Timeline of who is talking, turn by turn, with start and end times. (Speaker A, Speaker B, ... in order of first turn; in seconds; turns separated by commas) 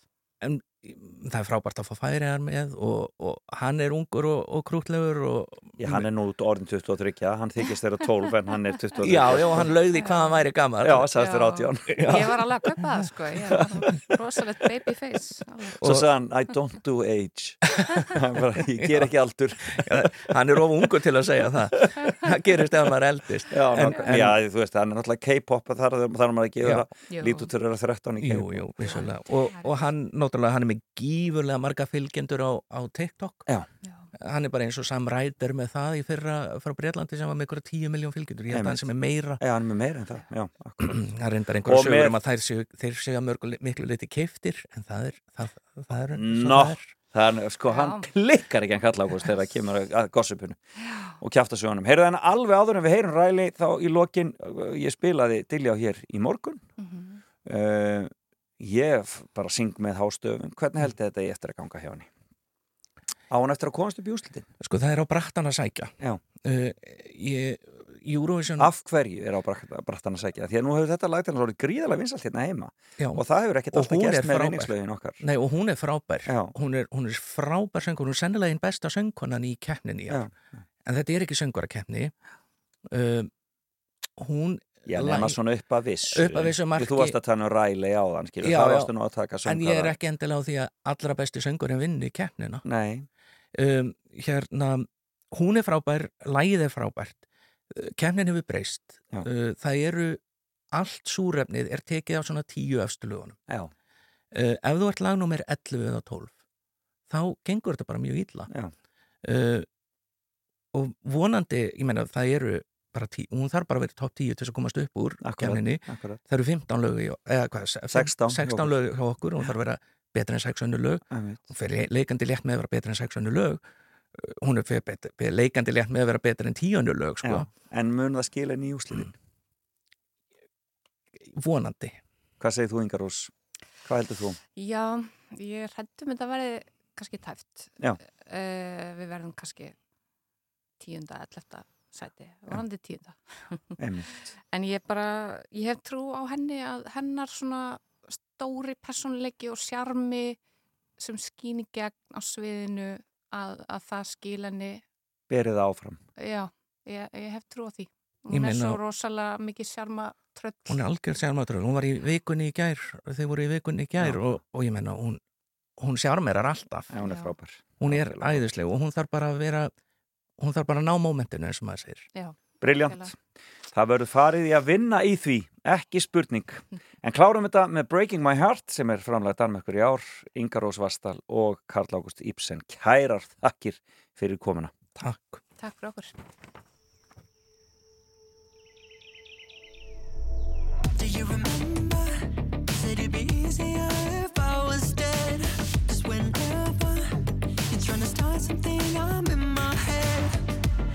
Speaker A: 0.4-6.1, Speaker B: 5.8-9.9, Speaker A: 9.0-11.2, Speaker C: 9.8-10.4, Speaker B: 10.8-12.4, Speaker C: 11.2-15.8, Speaker A: 11.8-13.7, Speaker B: 13.6-14.0, Speaker A: 15.8-16.1, Speaker B: 15.8-20.3, Speaker A: 17.8-18.1, Speaker A: 18.8-19.1, Speaker A: 19.6-24.4, Speaker B: 23.5-29.1, Speaker C: 23.9-24.2, Speaker A: 26.6-26.9, Speaker C: 27.1-27.5, Speaker A: 28.2-33.5, Speaker C: 28.8-29.9, Speaker C: 33.8-34.1, Speaker A: 34.2-39.4, Speaker B: 38.5-41.0, Speaker A: 40.8-46.9, Speaker B: 41.6-42.2, Speaker B: 46.1-50.6, Speaker C: 47.7-48.1, Speaker C: 50.8-51.2, Speaker B: 51.2-56.6, Speaker C: 56.8-57.2, Speaker B: 57.4-62.1, Speaker B: 63.3-64.5, Speaker A: 64.6-68.7, Speaker B: 68.6-75.2, Speaker A: 73.0-80.3, Speaker B: 76.2-76.5, Speaker B: 80.1-80.3, Speaker A: 80.8-82.1, Speaker A: 82.9-83.3, Speaker A: 84.2-85.4, Speaker B: 84.8-90.0, Speaker A: 86.1-87.2, Speaker A: 88.4-88.9, Speaker A: 89.4-92.6, Speaker B: 92.6-93.1, Speaker A: 93.5-100.2, Speaker A: 100.7-103.4, Speaker A: 104.3-106.3, Speaker A: 107.1-108.5, Speaker A: 109.2-109.7, Speaker A: 110.7-123.6, Speaker B: 115.2-116.2, Speaker B: 117.9-118.8, Speaker B: 121.1-121.5, Speaker A: 124.2-127.5, Speaker B: 127.2-129.1, Speaker A: 131.2-132.0, Speaker B: 132.4-133.3, Speaker B: 133.8-134.4, Speaker C: 134.6-139.7, Speaker C: 140.8-150.4, Speaker B: 143.8-144.1, Speaker C: 151.0-154.8, Speaker B: 155.3-156.0, Speaker C: 156.2-160.8, Speaker A: 158.3-158.8, Speaker A: 160.7-165.2, Speaker B: 164.0-164.4, Speaker A: 165.8-166.9, Speaker B: 166.9-168.5, Speaker C: 166.9-167.3, Speaker A: 167.8-169.7, Speaker A: 170.4-172.1, Speaker C: 172.1-173.1, Speaker B: 172.6-173.2, Speaker B: 173.7-184.7, Speaker A: 185.0-185.4, Speaker C: 185.6-186.1, Speaker D: 190.9-192.1, Speaker D: 192.7-197.1, Speaker D: 197.7-200.4